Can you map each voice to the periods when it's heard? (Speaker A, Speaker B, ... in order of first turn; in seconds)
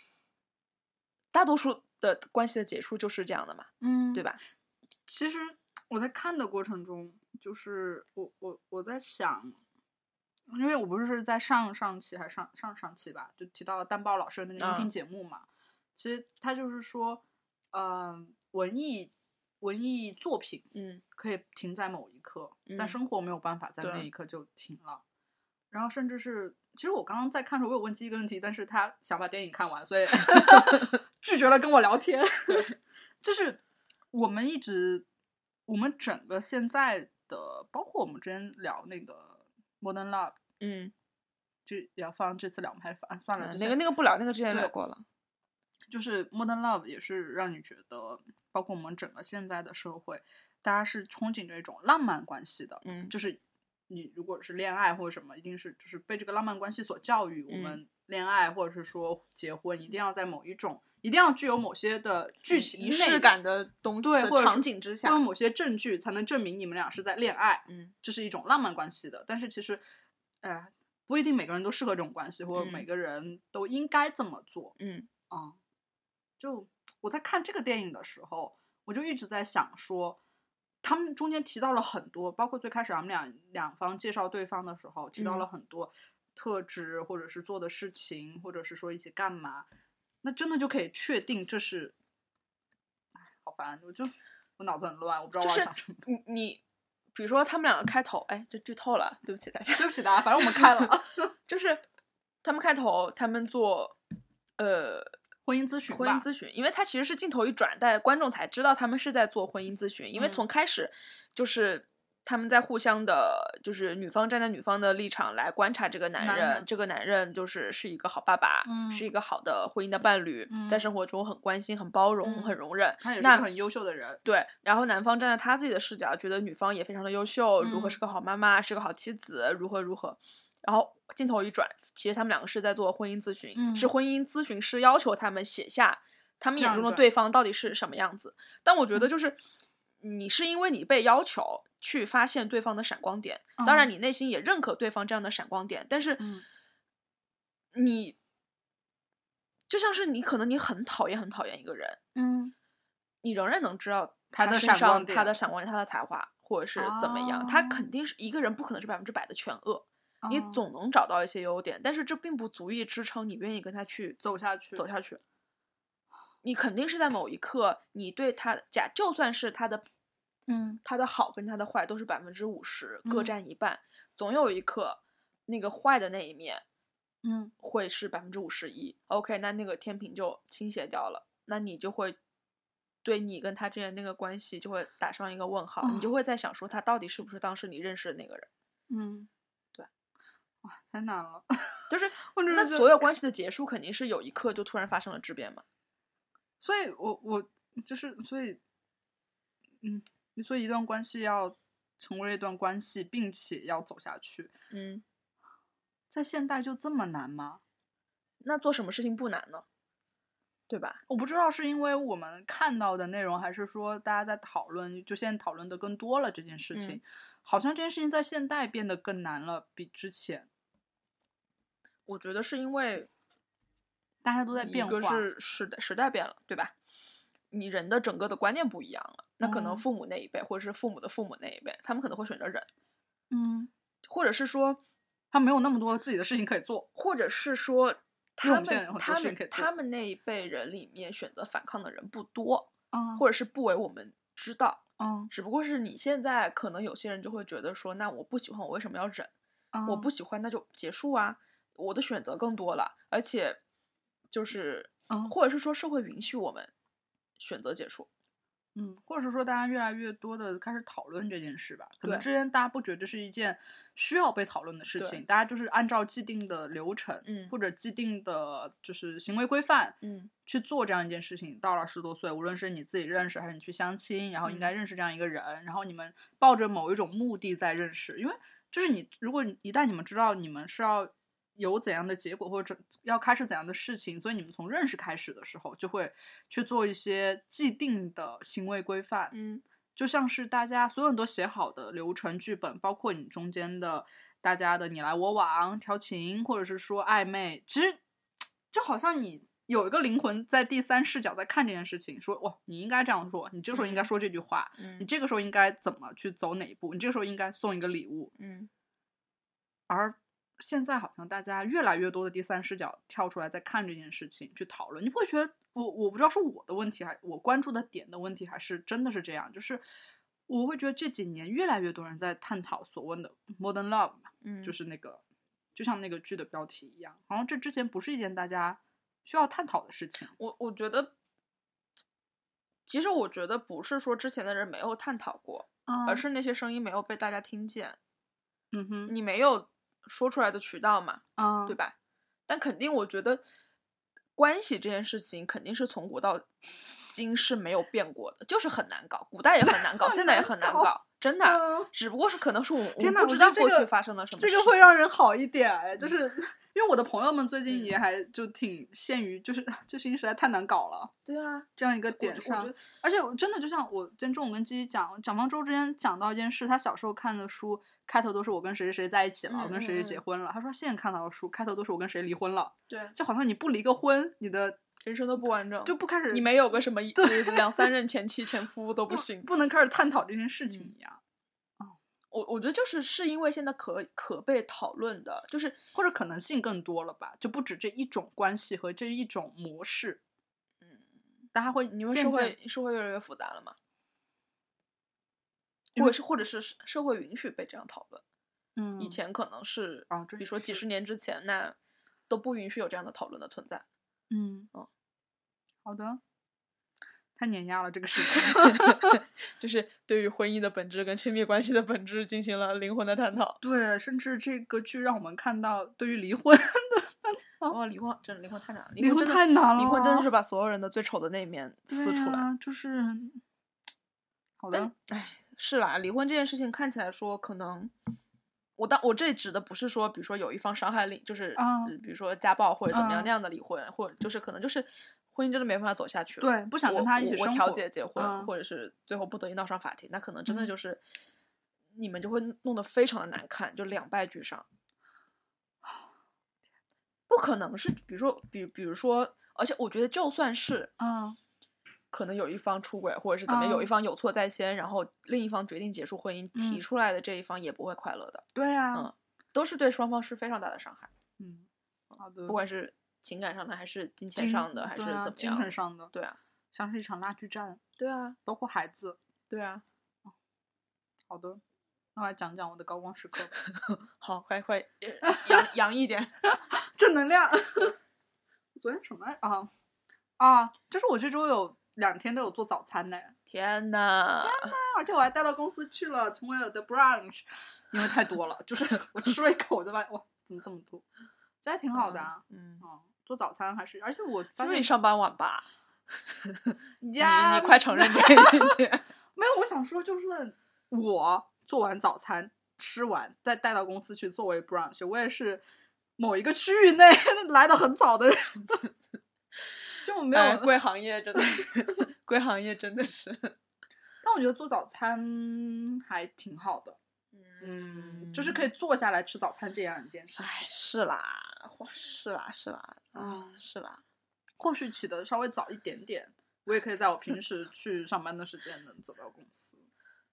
Speaker A: 1.3-4.4, 14.6-14.9, 20.7-21.0, 22.7-22.9, 23.8-24.1, 30.3-30.8, 40.6-40.9, 43.4-45.0, 52.8-53.1, 57.5-57.8, 62.5-65.2, 67.7-67.9, 72.5-72.8, 74.8-75.1, 85.2-85.4, 95.4-96.6, 97.1-100.9, 101.5-101.8, 102.4-104.0, 104.6-105.1, 105.9-123.5, 124.2-139.4, 140.0-146.3, 147.7-148.2, 149.7-152.0, 153.2-164.2, 164.8-165.2, 166.4-169.8, 170.8-176.6, 177.6-182.2, 183.0-188.5, 191.9-195.6, 204.7-205.0, 208.4-209.6, 210.7-211.0, 216.7-217.0, 222.1-223.1, 224.6-226.7, 227.5-232.7, 234.0-234.8, 236.9-249.3, 249.8-253.6, 254.3-256.7, 257.4-258.1, 267.2-267.5, 270.0-270.3, 274.4-274.7, 289.3-289.6, 303.7-304.1, 304.8-305.1, 308.4-308.7, 324.4-324.7, 330.4-331.1, 332.9-338.0, 339.1-341.9, 342.5-343.4, 344.4-346.5, 347.1-354.9, 357.7-357.9, 361.2-362.8, 369.5-370.2, 372.9-373.1, 375.0-379.5, 382.3-385.8, 391.9-393.8, 395.9-398.2, 399.0-401.8, 402.3-403.8, 408.3-413.6, 417.7-422.4, 424.7-427.9, 428.8-441.0, 441.9-444.6, 447.3-450.9, 452.1-461.1, 462.5-466.4, 468.0-468.4, 469.5-469.8, 473.6-476.4, 483.5-484.7, 491.9-492.8, 494.6-495.6, 496.2-499.1, 510.3-513.5, 517.3-518.6, 520.4-524.0
Speaker B: 3.8-4.2, 5.1-9.6, 10.5-17.2, 17.7-25.0, 25.7-33.6, 34.1-35.0, 35.7-40.4, 41.6-43.8, 45.9-63.4, 64.0-69.8, 70.4-74.7, 75.3-75.6, 76.4-80.2, 80.8-89.7, 90.2-91.9, 93.4-96.0, 99.8-101.3, 105.5-106.2, 110.2-110.4, 116.2-116.7, 118.6-119.1, 120.5-120.9, 122.2-124.2, 127.6-128.0, 133.5-133.9, 136.6-137.1, 143.6-143.9, 146.2-146.4, 152.1-152.5, 154.3-155.3, 156.8-157.9, 160.2-160.6, 164.2-164.8, 170.5-170.8, 173.0-173.3, 177.2-177.5, 185.8-186.1, 188.9-189.3, 190.6-193.1, 196.6-198.6, 199.8-204.5, 206.1-207.6, 211.1-220.5, 224.2-225.2, 229.4-229.8, 233.3-233.7, 235.3-236.9, 238.4-239.7, 242.9-243.2, 245.0-245.3, 249.7-250.1, 255.1-255.3, 258.7-289.3, 289.9-298.0, 298.7-308.3, 309.9-319.8, 320.5-325.2, 325.7-330.3, 335.9-336.2, 338.7-339.1, 341.4-341.8, 349.7-351.9, 353.0-361.1, 361.8-374.8, 375.8-376.5, 377.1-377.9, 379.1-381.2, 385.9-390.2, 391.5-392.6, 398.8-399.2, 400.1-400.8, 404.3-404.7, 405.8-406.2, 407.4-409.2, 413.6-417.7, 419.0-420.3, 421.9-423.4, 424.6-424.9, 431.6-431.9, 432.9-433.3, 436.4-438.5, 451.0-451.4, 453.5-453.9, 456.5-456.8, 458.5-459.1, 461.4-461.6, 462.2-462.6, 464.3-466.1, 466.7-467.8, 468.4-469.2, 471.3-471.6, 472.1-473.6, 475.2-475.7, 476.4-478.0, 478.8-479.7, 480.4-483.3, 484.4-491.0, 491.6-494.9, 497.0-498.8, 499.4-505.6, 506.2-508.9, 510.0-510.8, 511.4-511.7, 514.2-517.0, 517.6-520.7, 523.1-523.6, 524.6-529.8